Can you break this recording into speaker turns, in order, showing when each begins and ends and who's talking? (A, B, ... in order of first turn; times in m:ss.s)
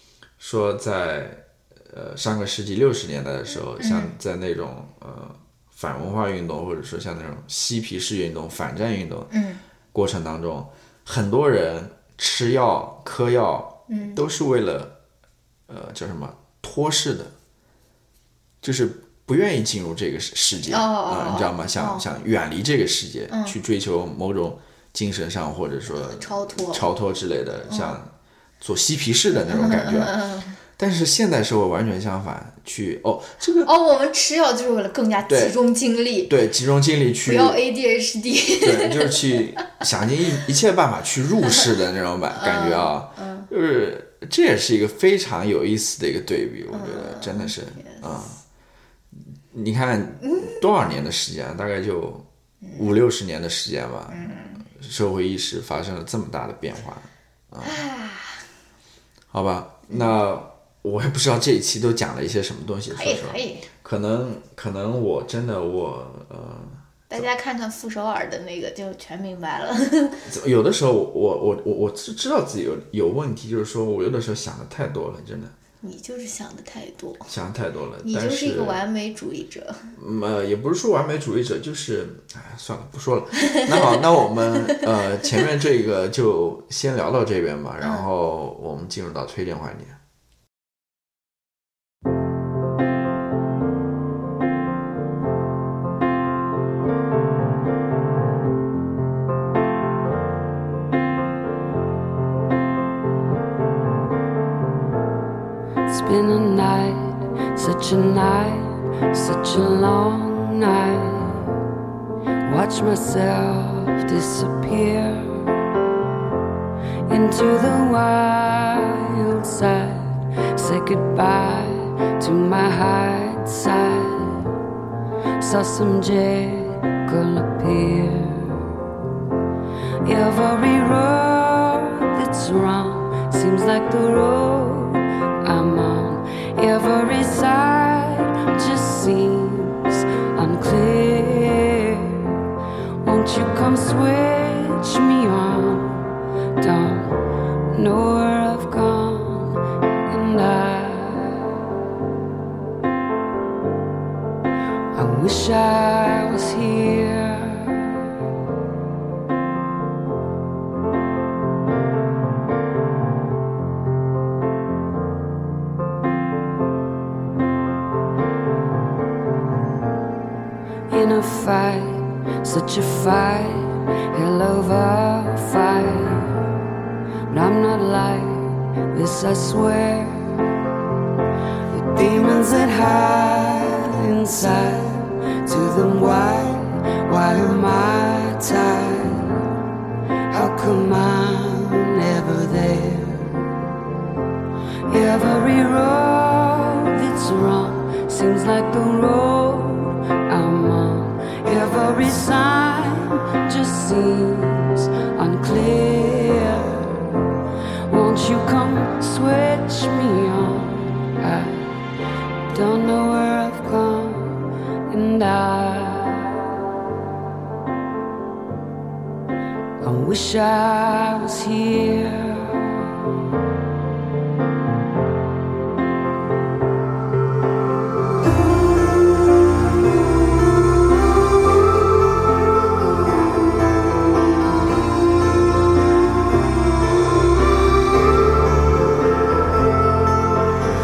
0:00.4-0:09.3 A
0:03.8-0:04.1 B
0:09.3-0:09.6 B
0:09.9-0:15.0 A
0:13.9-0:14.2 B
0:15.7-0:17.3 A
0:18.6-0:30.2 A
0:20.7-0:22.0 B
0:23.3-0:23.6 B
0:25.9-0:26.9 B
0:27.7-0:28.0 B
0:29.3-0:30.6 B
0:30.8-0:33.7 A
0:33.6-0:36.3 B
0:35.2-0:35.6 A
0:36.3-0:37.6 A
0:37.3-0:39.3 B
0:38.6-0:48.4 A
0:42.3-0:43.5 B
0:46.7-0:48.1 B
0:49.5-0:52.2 A
0:50.2-0:50.5 B
0:52.6-0:52.9 B
0:52.8-0:57.8 A
0:54.1-0:54.6 B
0:57.6-0:58.4 B
0:59.3-1:07.2 A
1:02.9-1:03.7 B
1:07.1-1:10.3 B
1:10.3-1:15.5 A
1:15.8-1:17.3 B
1:17.3-1:18.8 A
1:18.0-1:19.9 B
1:20.0-1:30.0 A
1:23.4-1:24.0 B
1:27.8-1:28.1 B
1:45.9-1:51.6 C
1:52.4-1:55.6 C
1:57.1-2:04.5 C
2:05.4-2:08.7 C
2:10.0-2:22.4 C
2:23.0-2:31.6 C
2:34.9-2:38.0 C
2:50.9-2:56.5 C
2:57.3-3:00.4 C
3:01.7-3:09.5 C
3:10.3-3:13.5 C
3:14.9-3:27.1 C
3:27.9-3:31.8 C
3:32.5-3:36.5 C
3:39.8-3:42.9 C